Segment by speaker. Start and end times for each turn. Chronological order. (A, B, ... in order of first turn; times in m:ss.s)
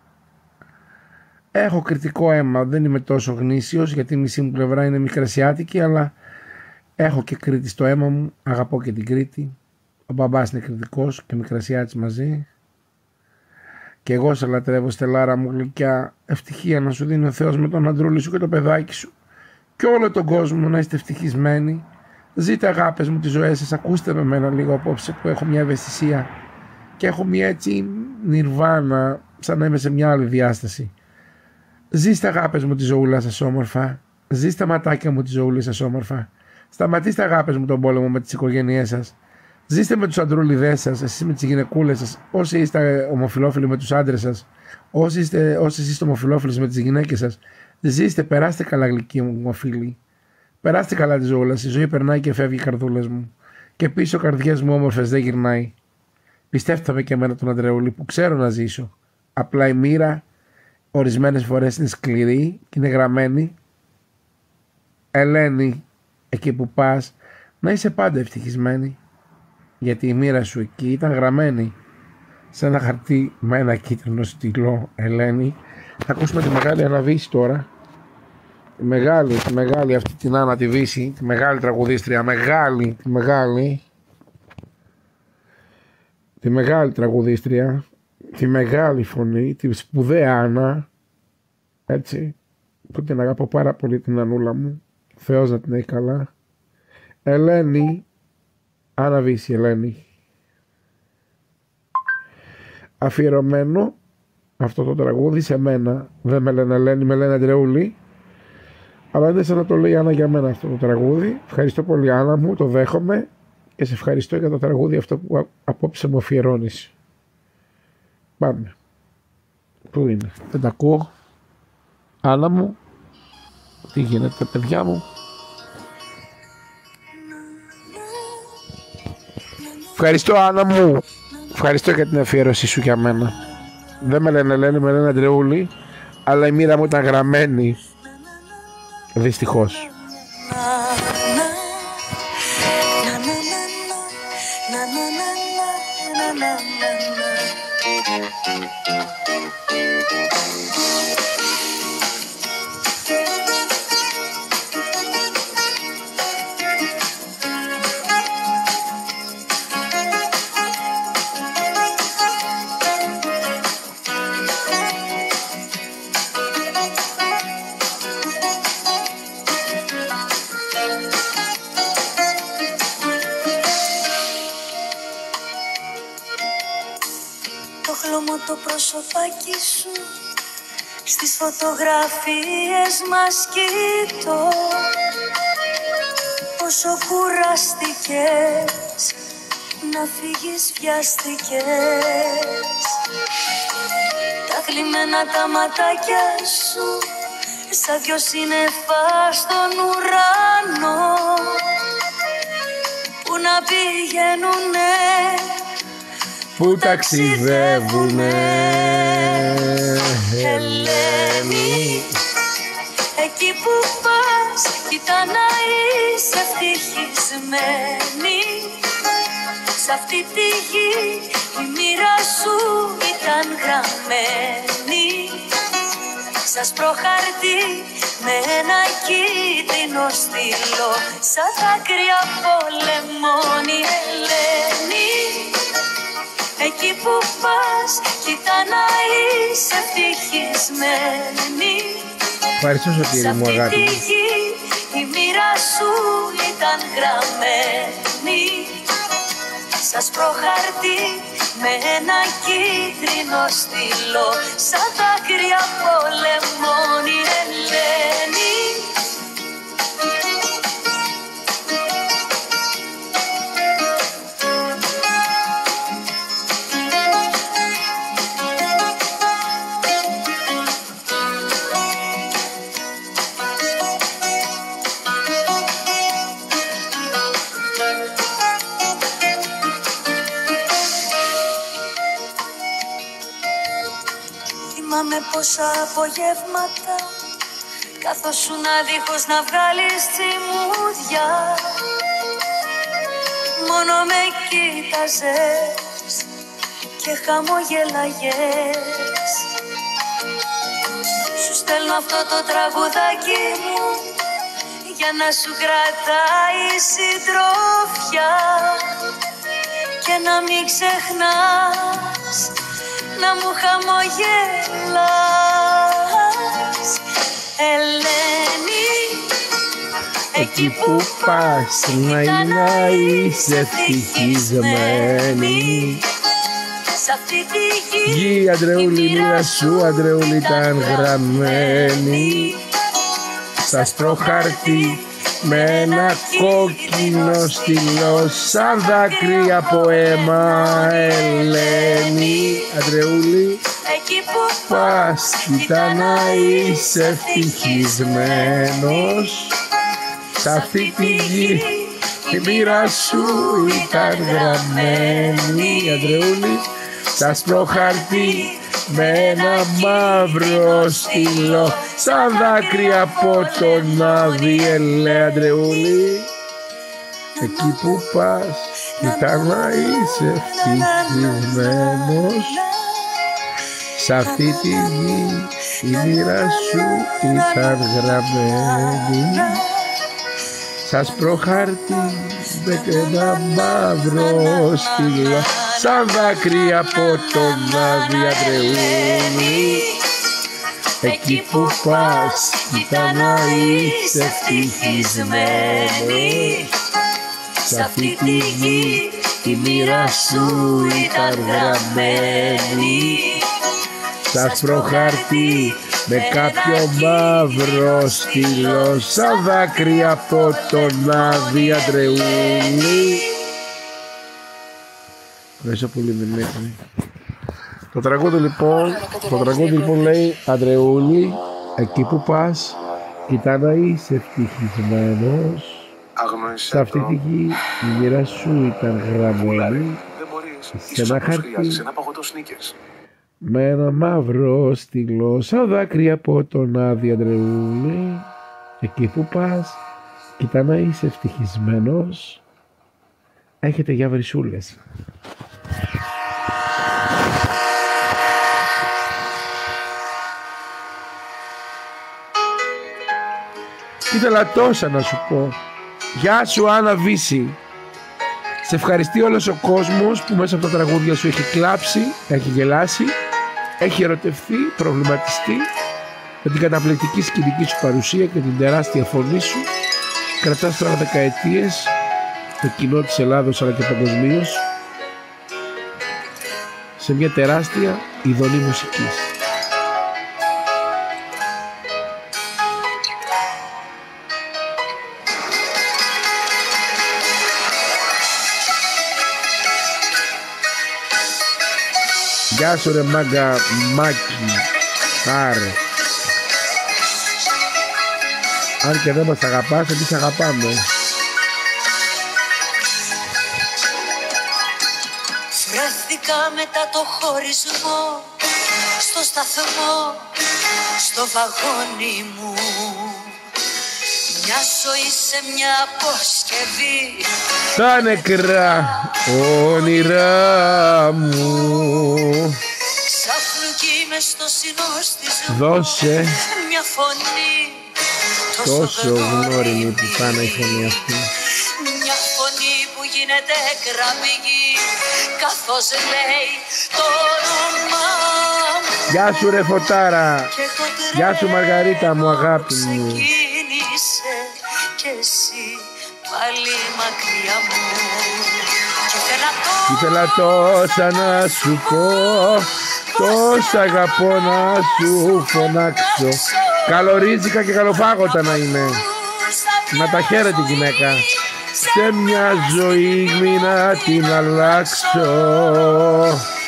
0:01.6-0:06.2 A
0:07.0-0:09.6 A
0:10.1-0:12.5 A
0:14.0-0:19.1 A
0:19.8-0:26.3 A
0:27.0-0:30.9 A
0:31.9-0:39.2 A
0:39.7-0:50.0 A
0:50.6-0:55.8 A
0:56.5-1:00.2 A
1:00.9-1:03.6 A
1:05.1-1:09.0 A
1:09.8-1:11.8 A
1:12.5-1:17.7 A
1:18.8-1:23.8 A
1:26.4-1:30.9 A
1:31.9-1:32.4 A
1:32.9-1:36.3 A
1:37.3-1:38.1 A
1:39.0-1:40.0 A
1:43.0-1:44.0 A
1:44.6-1:48.0 A
1:49.1-1:56.9 A
1:58.4-1:58.8 A
1:59.9-2:01.1 A
2:02.2-2:02.8 A
2:03.9-2:05.0 A
2:07.3-2:08.6 B
2:09.6-2:10.0 B
2:10.0-2:13.4 A
2:14.0-2:15.7 A
2:16.3-2:17.8 A
2:18.1-2:18.4 B
2:19.2-2:19.9 A
2:19.4-2:22.2 B
2:23.0-2:27.6 B
2:57.8-3:00.1 B
3:01.0-3:04.9 B
3:06.6-3:09.2 B
3:09.8-3:12.9 B
3:14.5-3:17.1 B
3:17.7-3:21.8 B
3:23.2-3:25.7 B
3:26.6-3:32.2 A
3:26.6-3:29.8 B
3:30.4-3:32.1 B
3:33.2-3:38.9 B
3:39.8-3:45.5 B
3:46.5-3:55.6 B
3:56.6-4:02.1 B
4:02.6-4:04.0 A
4:03.1-4:08.9 B
4:09.8-4:19.0 B
4:44.7-4:47.1 B
4:48.0-4:51.6 B
4:53.6-4:56.3 B
4:57.0-4:59.5 B
5:01.4-5:04.1 B
5:04.9-5:09.0 B
5:10.0-5:12.6 B
5:13.2-5:17.0 B
5:17.6-5:19.4 B
5:20.3-5:26.0 B
5:20.4-5:26.0 A
5:27.0-5:32.6 B
5:28.1-5:32.6 A
5:33.6-5:42.7 B
5:33.7-5:43.6 A
5:43.8-5:49.2 B
5:44.7-5:49.5 A
5:50.4-5:56.4 B
5:50.4-5:51.7 A
5:52.3-6:06.3 A
5:57.1-6:06.0 B
6:07.4-6:08.2 B
6:07.4-6:12.6 A
6:08.8-6:13.4 B
6:14.0-6:19.6 A
6:14.0-6:20.0 B
6:20.8-6:29.9 A
6:21.0-6:30.1 B
6:31.0-6:36.7 A
6:31.0-6:36.7 B
6:37.6-6:43.5 B
6:37.7-6:43.2 A
6:44.3-6:53.5 B
6:44.3-6:53.3 A
6:55.6-6:56.8 A
6:57.9-7:05.9 A
7:06.2-7:07.1 C
7:06.7-7:10.0 A
7:10.1-7:12.7 C
7:10.8-7:11.9 A
7:13.4-7:18.2 A
7:18.8-7:19.8 A
7:20.4-7:22.4 A
7:23.6-7:24.8 A
7:34.1-7:35.6 A
7:36.1-7:37.6 A
7:38.6-7:43.2 A
7:43.8-7:45.7 A
7:46.4-7:49.7 A
7:50.4-7:51.9 A
7:52.6-7:54.6 A
7:57.0-7:59.3 A
8:12.5-8:14.7 A
8:15.2-8:15.8 A
8:18.8-8:20.9 A
8:25.6-8:28.3 B
8:29.0-8:30.2 B
8:31.0-8:33.3 B
8:34.3-8:40.6 B
8:37.8-8:42.6 A
8:41.3-8:42.0 B
8:43.0-8:47.9 B
8:45.5-8:46.4 A
8:48.5-8:51.1 B
8:48.6-8:51.3 A
8:51.6-8:59.0 B
8:59.1-9:00.5 A
9:00.5-9:26.1 B
9:01.1-9:03.3 A
9:09.9-9:19.0 A
9:19.9-9:21.3 A
9:21.8-9:26.4 A